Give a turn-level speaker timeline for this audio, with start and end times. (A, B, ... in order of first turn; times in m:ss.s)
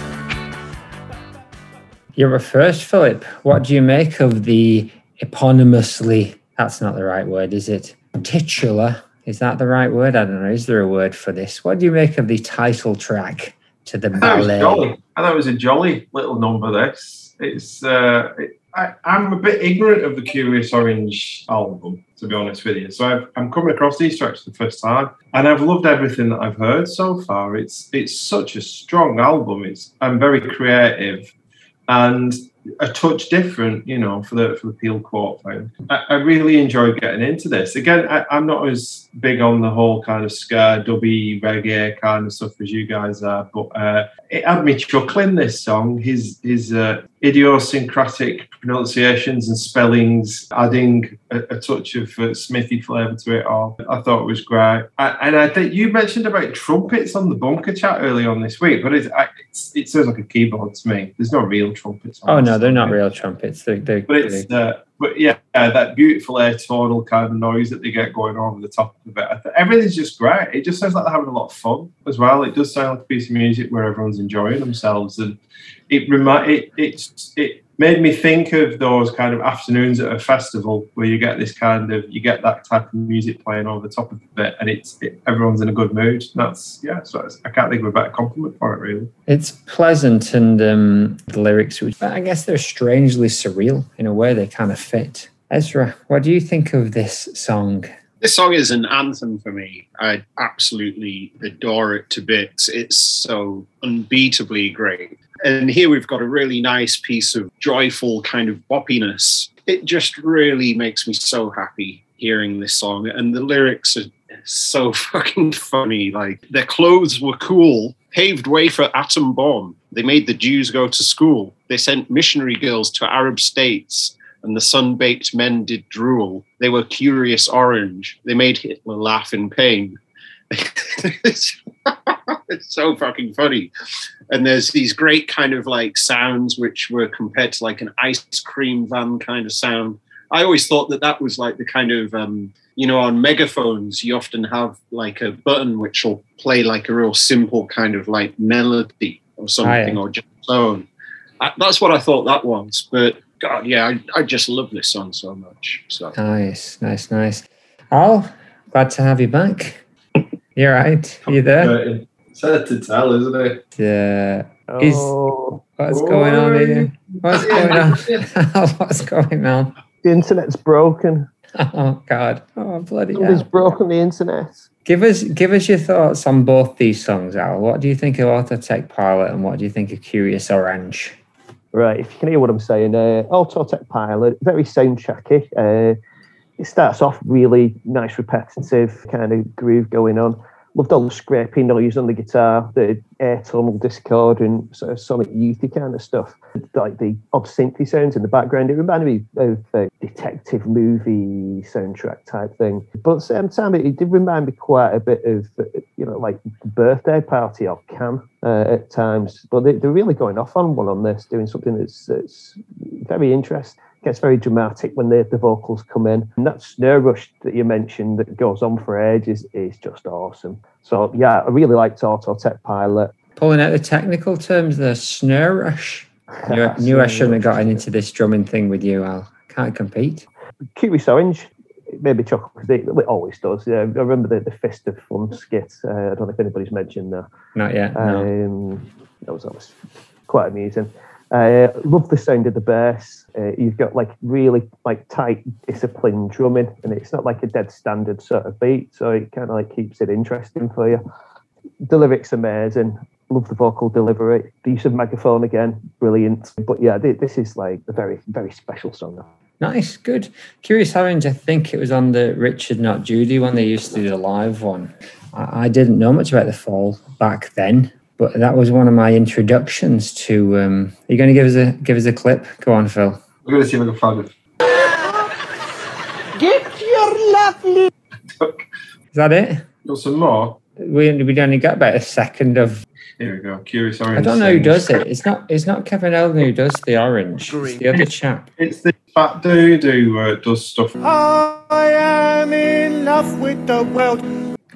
0:02.2-0:14.9 A
0:14.2-0:31.3 B
0:31.9-1:03.0 B
1:02.3-1:04.5 A
1:04.1-1:15.4 B
1:15.9-1:29.1 B
1:29.3-1:37.9 A
1:38.2-2:10.0 C
2:10.5-2:13.7 C
2:14.3-2:30.9 C
2:29.6-2:30.0 A
2:31.4-2:36.1 C
2:36.2-2:39.8 A
2:40.6-2:41.8 A
2:41.3-2:43.6 B
2:43.8-2:45.2 A
2:44.7-2:46.9 D
2:45.8-2:49.8 A
2:47.2-2:48.2 B
2:47.4-2:47.8 D
2:50.0-2:51.3 D
2:51.6-2:53.5 A
2:53.2-2:54.7 D
2:54.9-3:01.2 A
3:01.7-3:06.0 D
3:06.6-3:43.1 D
3:43.4-3:50.3 A
3:46.4-3:47.8 D
3:50.8-3:57.3 D
3:57.6-3:58.3 A
3:58.0-3:59.8 D
4:00.3-4:11.0 D
4:11.9-4:19.3 D
4:19.6-4:33.2 A
4:33.4-4:34.3 B
4:39.1-4:39.7 A
4:39.8-4:40.6 B
4:40.8-4:42.8 A
4:43.2-4:45.0 B
4:44.2-4:48.5 A
4:48.6-4:51.0 B
4:51.0-4:54.3 E